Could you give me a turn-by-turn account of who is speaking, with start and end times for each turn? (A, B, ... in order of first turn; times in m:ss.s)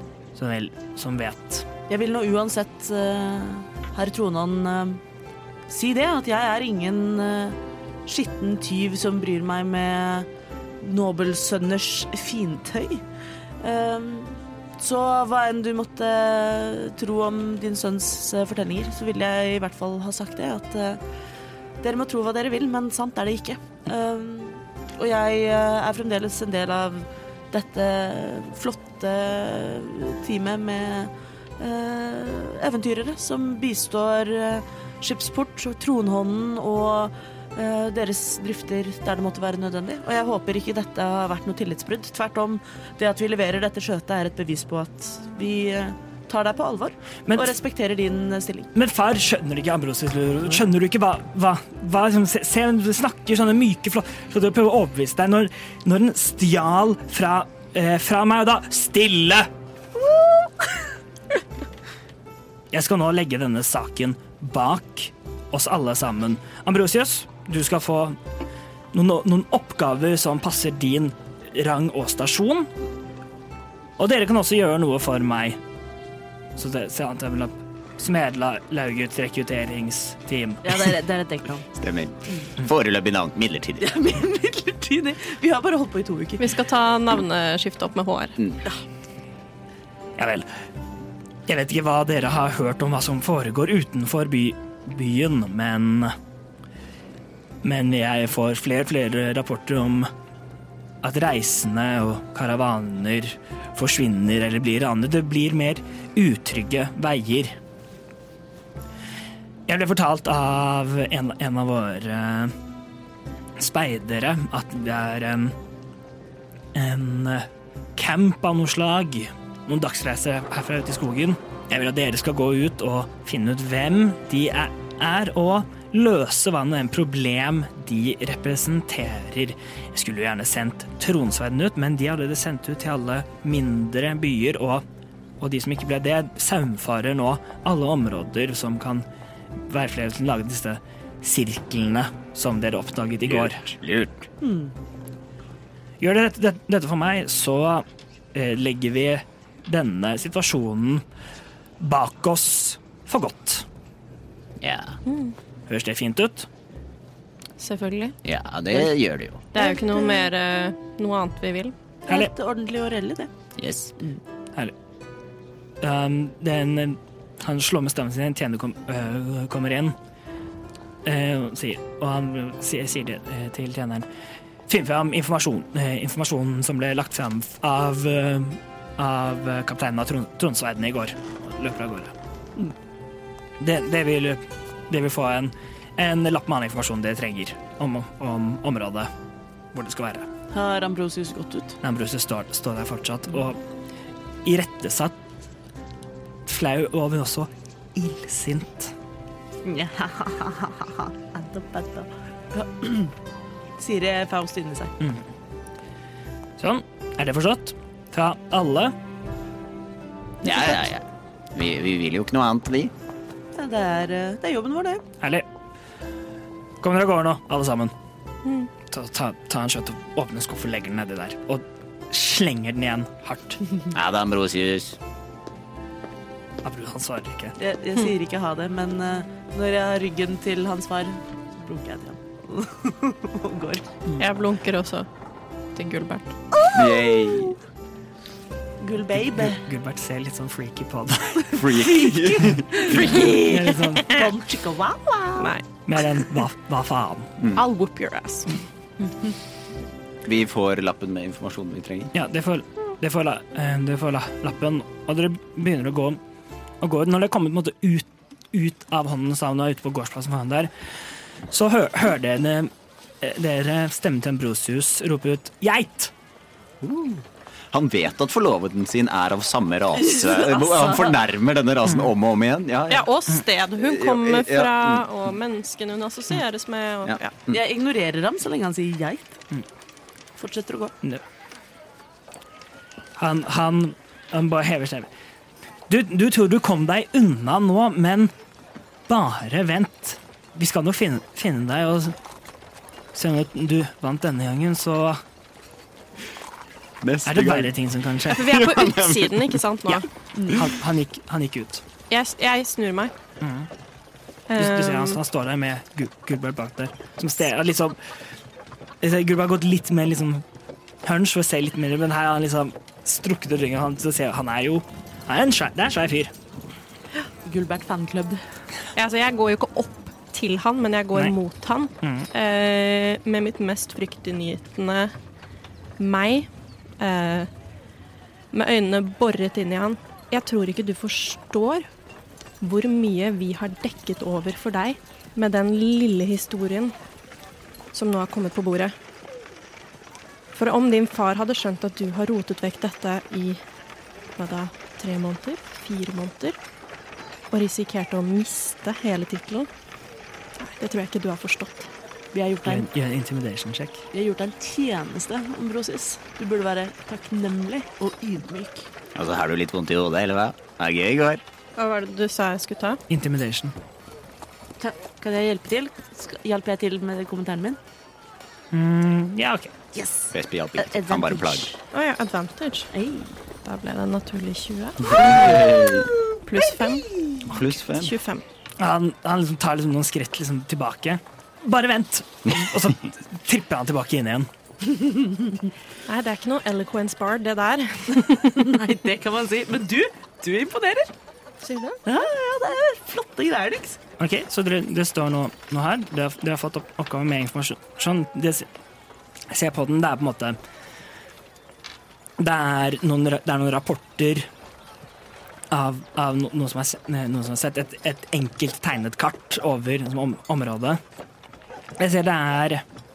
0:00.3-0:01.6 A
0:01.9-0:05.0 B
0:05.7-0:10.3 B
0:10.8-0:13.0 B
0:13.6-0:21.0 B
0:21.8-0:48.7 B
0:47.3-0:47.5 A
0:48.7-0:59.5 A
1:02.7-1:08.2 A
1:08.9-1:12.7 A
1:14.0-1:15.6 A
1:16.6-1:21.0 A
1:20.6-1:21.7 B
1:21.8-1:24.0 C
1:23.8-1:26.5 B
1:26.4-1:28.4 D
1:30.2-1:30.5 A
1:31.5-1:36.1 A
1:37.6-1:40.1 A
1:41.0-1:47.6 A
1:49.7-1:52.5 A
1:53.6-1:55.5 A
1:56.7-2:14.8 A
2:15.4-2:19.0 A
2:19.7-2:23.6 A
2:23.2-2:24.3 C
2:24.4-2:24.7 B
2:26.0-2:31.0 A
2:31.8-2:33.6 A
2:34.6-2:35.0 C
2:35.0-2:35.3 D
2:35.7-2:36.5 A
2:37.6-2:38.2 D
2:38.2-2:39.4 C
2:39.5-2:41.7 D
2:39.5-2:40.3 B
2:42.1-2:43.3 B
2:43.6-2:43.9 C
2:45.8-2:49.9 A
2:51.0-2:54.1 A
2:54.7-3:02.1 A
3:03.6-3:09.1 A
3:09.7-3:10.3 A
3:10.5-3:11.8 B
3:11.8-3:13.6 A
3:14.4-3:15.2 A
3:16.4-3:18.9 A
3:19.6-3:23.1 B
3:23.8-3:24.9 B
3:26.6-3:28.9 A
3:30.4-3:32.9 C
3:30.4-3:30.7 B
3:33.5-3:35.0 B
3:35.2-3:35.4 A
3:36.8-3:37.9 A
3:38.9-3:43.6 A
3:43.9-3:45.0 C
3:46.6-3:47.6 A
3:47.6-3:53.9 B
3:54.2-3:55.1 D
3:55.7-3:56.3 D
3:56.5-3:57.6 B
3:56.7-3:57.6 C
3:58.8-3:59.6 B
3:59.2-4:01.8 A
4:01.5-4:03.3 C
4:01.7-4:05.5 B
4:02.9-4:04.2 A
4:03.0-4:03.3 D
4:05.4-4:05.6 D
4:05.8-4:07.3 A
4:07.5-4:08.5 D
4:09.0-4:09.3 B
4:10.2-4:12.1 C
4:12.1-4:16.2 A
4:16.8-4:20.7 A
4:21.5-4:26.1 A
4:26.8-4:33.1 C
4:30.0-4:31.2 B
4:32.9-4:37.3 D
4:33.8-4:35.0 C
4:37.0-4:37.6 C
4:37.5-4:39.4 B
4:40.4-4:40.9 B
4:43.2-4:45.1 A
4:45.9-4:48.3 A
4:49.1-4:52.2 A
4:53.1-4:55.2 A
4:57.0-4:57.7 C
4:57.2-4:58.5 A
4:58.3-5:00.1 D
4:58.3-4:59.6 C
5:00.5-5:01.8 A
5:02.1-5:03.1 D
5:03.4-5:03.7 A
5:04.5-5:05.2 D
5:04.6-5:08.0 A
5:09.0-5:10.4 A
5:11.0-5:16.3 A
5:17.4-5:18.4 B
5:18.9-5:25.1 D
5:22.0-5:22.3 A
5:26.0-5:26.5 D
5:27.0-5:27.5 D
5:28.5-5:31.9 D
5:32.6-5:36.9 D
5:37.9-5:38.9 D
5:40.5-5:43.6 D
5:44.4-5:46.6 D
5:47.5-5:49.7 D
5:50.6-5:51.9 D
5:52.3-5:52.9 B
5:52.6-5:54.0 A
5:54.1-5:58.9 B
5:59.1-6:01.4 C
6:01.8-6:03.0 D
6:03.1-6:03.7 A
6:04.8-6:07.8 B
6:08.7-6:09.7 A
6:09.9-6:11.8 B
6:10.3-6:11.7 C
6:11.9-6:12.9 D
6:12.9-6:13.3 B
6:13.6-6:15.6 D
6:15.0-6:16.1 C
6:15.1-6:17.5 B
6:16.5-6:18.4 D
6:17.4-6:18.1 C
6:18.8-6:24.5 A
6:24.8-6:25.7 B
6:26.0-6:28.7 D
6:28.5-6:31.1 B
6:31.6-6:32.0 D
6:32.0-6:34.0 B
6:34.2-6:38.7 A
6:39.5-6:40.6 A
6:42.4-6:44.5 A
6:45.7-6:51.0 A
6:52.0-6:52.8 A